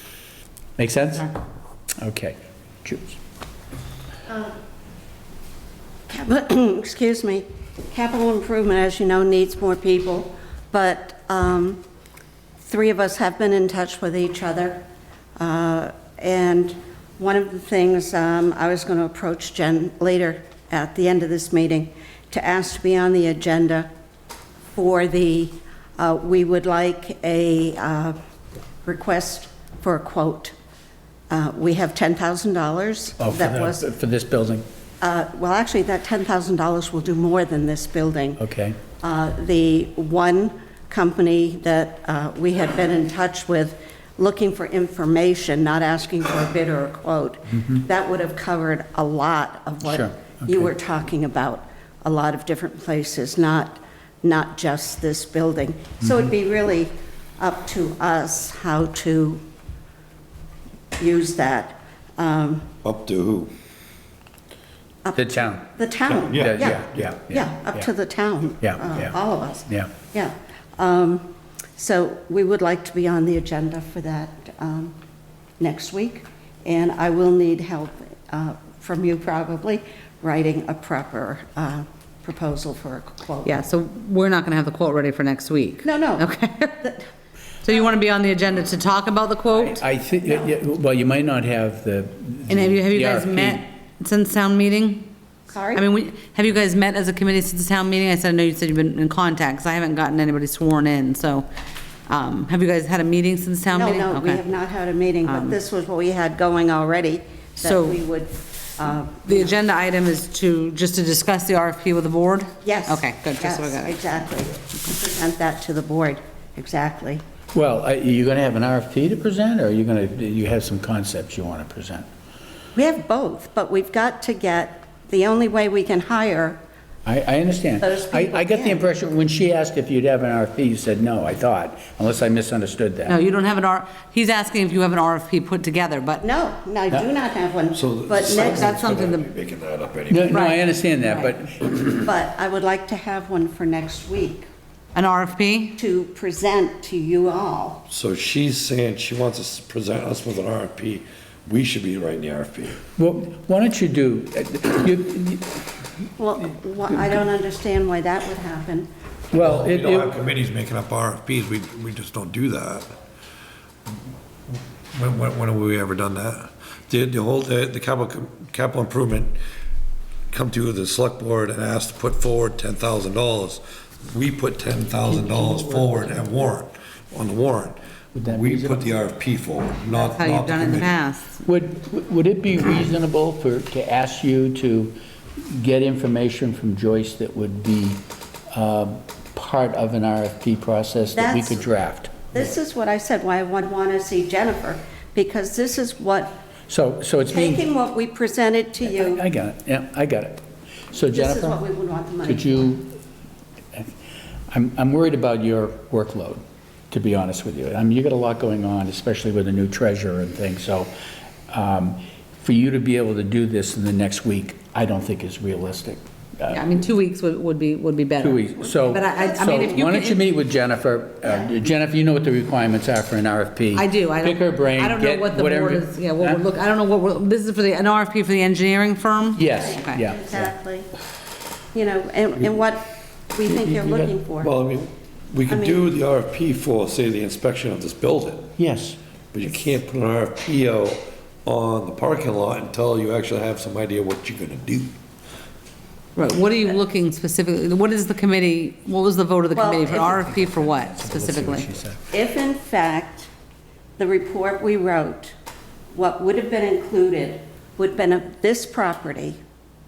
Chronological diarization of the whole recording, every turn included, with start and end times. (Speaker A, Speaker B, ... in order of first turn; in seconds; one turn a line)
Speaker A: 0.8-1.3
Speaker A: 2.0-3.2
Speaker B: 4.3-4.5
Speaker B: 6.1-11.8
Speaker B: 12.6-14.8
Speaker B: 15.4-23.9
Speaker B: 24.7-28.1
Speaker B: 28.8-30.5
Speaker B: 31.3-33.8
Speaker A: 33.2-34.6
Speaker B: 35.0-38.4
Speaker A: 38.4-38.8
Speaker B: 39.0-59.4
Speaker A: 49.8-50.7
Speaker B: 61.0-62.7
Speaker C: 62.8-63.5
Speaker B: 65.0-74.9
Speaker A: 65.1-65.6
Speaker C: 66.1-67.1
Speaker A: 66.3-67.9
Speaker A: 68.6-69.1
Speaker B: 75.6-83.6
Speaker D: 83.4-86.8
Speaker B: 85.8-86.3
Speaker B: 86.8-87.1
Speaker D: 87.6-89.8
Speaker B: 87.7-87.9
Speaker A: 89.7-93.6
Speaker D: 92.5-95.1
Speaker B: 95.5-95.8
Speaker D: 95.7-101.5
Speaker D: 102.1-104.4
Speaker B: 103.7-109.6
Speaker D: 105.2-105.6
Speaker D: 107.6-108.0
Speaker D: 109.2-114.2
Speaker B: 112.6-117.2
Speaker A: 117.5-122.1
Speaker B: 122.7-126.6
Speaker A: 127.0-133.2
Speaker B: 127.8-128.8
Speaker D: 133.1-136.2
Speaker B: 136.2-139.0
Speaker C: 137.7-140.6
Speaker D: 138.2-139.2
Speaker A: 140.1-142.1
Speaker D: 140.3-141.3
Speaker B: 142.0-144.5
Speaker D: 144.9-145.8
Speaker B: 145.8-147.8
Speaker C: 147.9-152.8
Speaker A: 153.0-155.6
Speaker B: 156.2-158.9
Speaker A: 159.3-160.1
Speaker C: 159.3-162.9
Speaker C: 164.9-169.4
Speaker C: 170.3-180.9
Speaker A: 175.0-176.2
Speaker A: 178.1-178.9
Speaker D: 179.9-181.4
Speaker A: 181.4-192.4
Speaker B: 191.1-191.7
Speaker B: 192.3-196.4
Speaker A: 196.7-197.6
Speaker B: 197.3-199.2
Speaker A: 198.8-201.6
Speaker B: 201.1-202.6
Speaker A: 202.2-202.9
Speaker A: 204.5-210.9
Speaker A: 211.5-216.8
Speaker D: 216.5-220.2
Speaker A: 218.2-226.4
Speaker B: 218.9-219.6
Speaker D: 223.7-230.0
Speaker A: 229.3-230.5
Speaker B: 229.5-230.9
Speaker B: 231.7-234.5
Speaker A: 233.4-234.1
Speaker C: 234.4-238.5
Speaker B: 235.5-235.8
Speaker A: 238.6-239.0
Speaker C: 239.3-244.9
Speaker D: 246.2-251.7
Speaker B: 249.5-250.2
Speaker A: 249.9-252.0
Speaker B: 252.1-253.3
Speaker B: 254.0-255.3
Speaker B: 255.9-259.4